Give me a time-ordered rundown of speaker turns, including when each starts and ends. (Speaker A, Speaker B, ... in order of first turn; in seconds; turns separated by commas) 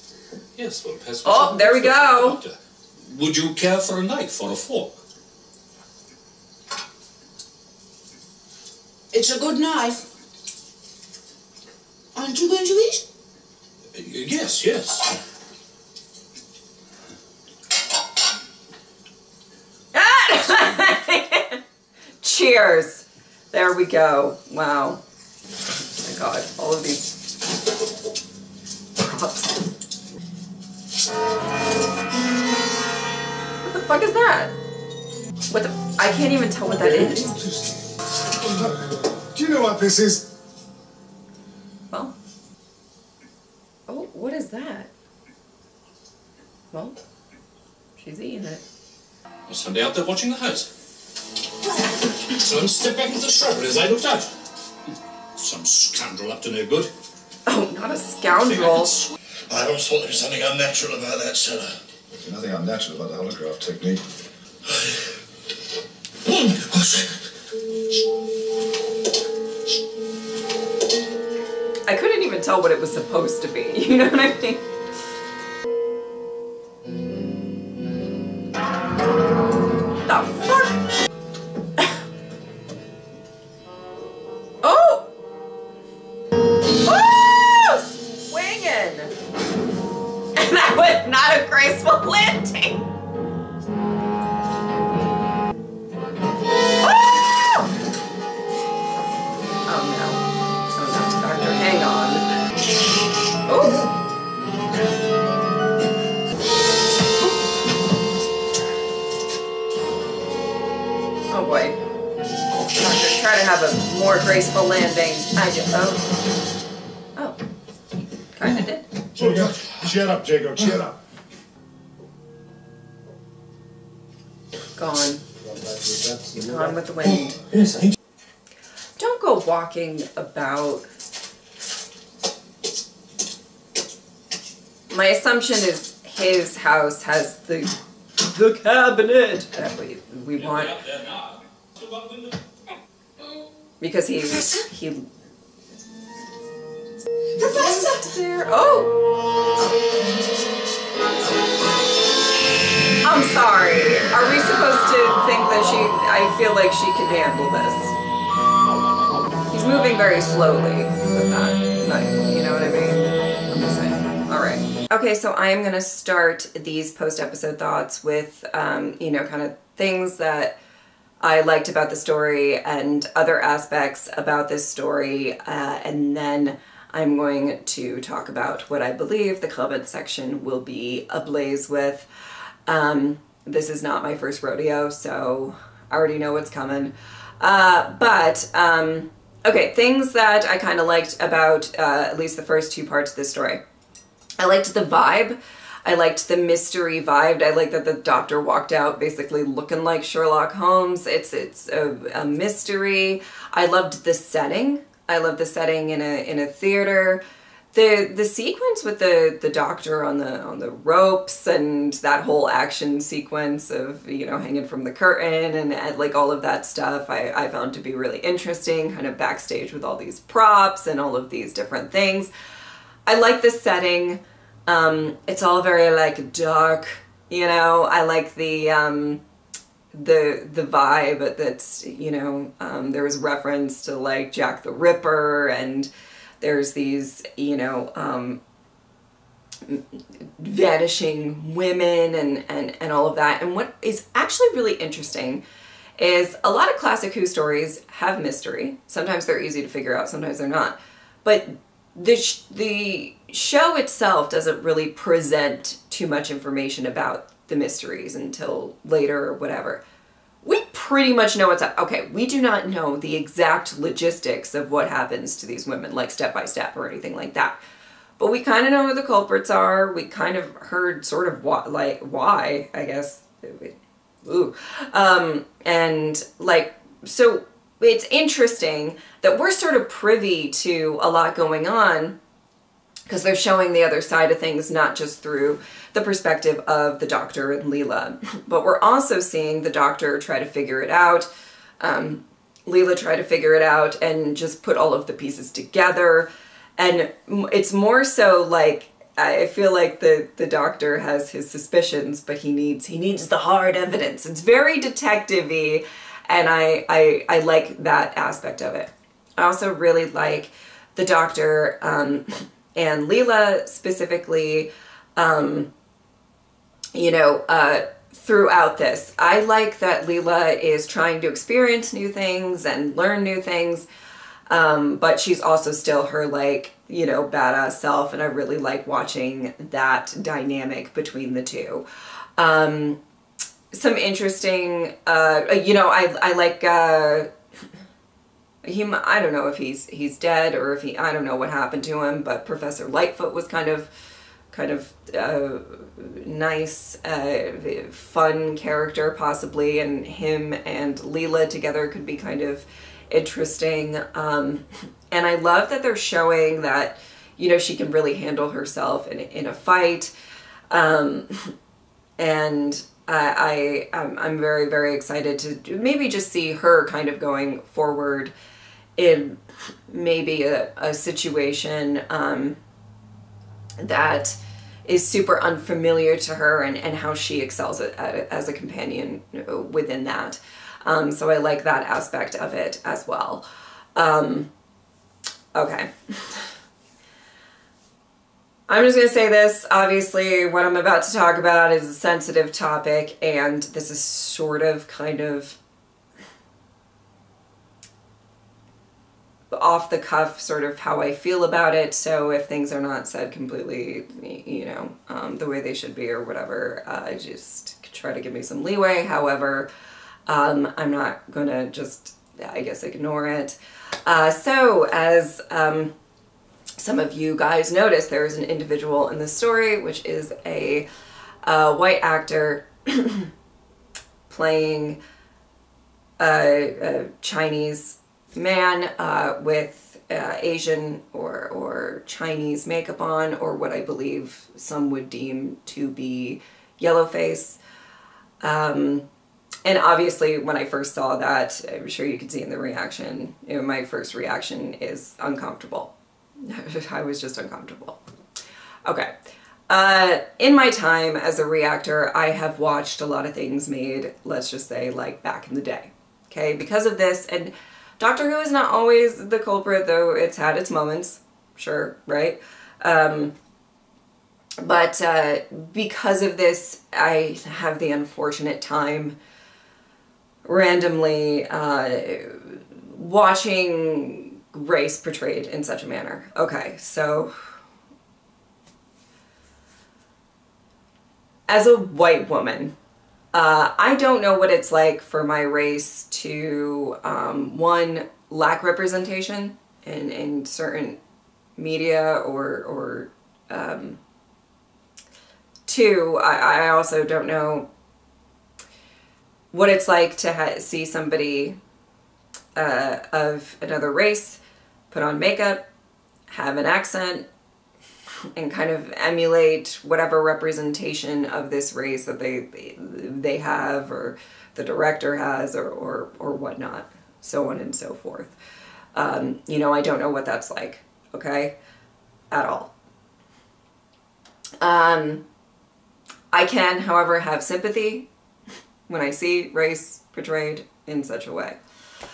Speaker A: 0.6-5.0, Speaker B: 1.2-2.4, Speaker C: 9.1-10.0, Speaker C: 12.2-13.0, Speaker A: 13.9-15.1, Speaker B: 19.9-21.6, Speaker B: 22.2-25.0, Speaker B: 26.0-27.1, Speaker B: 29.0-29.6, Speaker B: 33.7-34.5, Speaker B: 35.5-37.3, Speaker D: 36.8-37.8, Speaker D: 38.5-40.3, Speaker B: 43.9-44.9, Speaker B: 48.0-48.6, Speaker A: 49.5-50.7, Speaker A: 52.3-54.3, Speaker A: 55.4-56.9, Speaker B: 57.5-58.9, Speaker A: 58.5-59.1, Speaker E: 59.5-61.8, Speaker D: 62.2-64.0, Speaker E: 66.2-67.2, Speaker B: 71.9-74.6, Speaker B: 80.1-80.8, Speaker B: 84.6-85.1, Speaker B: 86.8-89.1, Speaker B: 90.4-92.8, Speaker B: 96.8-97.7, Speaker B: 99.7-102.2, Speaker B: 103.5-103.9, Speaker B: 111.3-111.8, Speaker B: 112.8-116.0, Speaker B: 118.3-118.8, Speaker D: 119.2-121.0, Speaker E: 119.2-119.4, Speaker B: 124.8-125.2, Speaker D: 125.4-127.1, Speaker B: 126.4-127.4, Speaker B: 129.0-130.9, Speaker B: 134.9-140.8, Speaker A: 140.4-142.3, Speaker B: 143.8-145.1, Speaker B: 147.4-149.0, Speaker C: 147.4-148.1, Speaker B: 153.0-157.9, Speaker B: 159.5-170.6, Speaker B: 171.2-182.1, Speaker B: 182.7-193.6, Speaker B: 194.4-207.2, Speaker B: 207.7-222.3, Speaker B: 223.1-229.2, Speaker B: 229.9-235.9, Speaker B: 236.4-238.4, Speaker B: 240.4-245.4, Speaker B: 246.0-259.8, Speaker B: 260.4-267.6, Speaker B: 268.2-282.2, Speaker B: 283.1-291.3, Speaker B: 291.8-315.7, Speaker B: 316.9-323.9, Speaker B: 324.5-331.8, Speaker B: 332.4-333.0, Speaker B: 333.7-337.3, Speaker B: 338.6-343.9, Speaker B: 344.5-360.1, Speaker B: 360.7-361.5, Speaker B: 362.2-368.3, Speaker B: 369.0-369.4, Speaker B: 369.9-372.6, Speaker B: 373.8-383.4, Speaker B: 384.0-384.5, Speaker B: 385.6-386.5, Speaker B: 388.7-395.6, Speaker B: 399.5-409.7, Speaker B: 410.3-415.9, Speaker B: 416.8-420.9, Speaker B: 421.4-423.3, Speaker B: 424.3-425.0, Speaker B: 426.2-437.6, Speaker B: 438.4-439.1, Speaker B: 439.6-448.0, Speaker B: 448.9-449.1, Speaker B: 449.7-463.3, Speaker B: 464.6-469.1, Speaker B: 470.4-477.3, Speaker B: 481.5-482.7, Speaker B: 483.3-491.0, Speaker B: 491.6-494.0, Speaker B: 495.7-497.7, Speaker B: 499.5-501.6, Speaker B: 502.6-504.4, Speaker B: 504.9-505.6, Speaker B: 506.3-507.2, Speaker B: 508.4-518.3, Speaker B: 519.0-521.5, Speaker B: 522.3-522.7, Speaker B: 524.6-525.2, Speaker B: 526.3-528.1, Speaker B: 528.9-531.6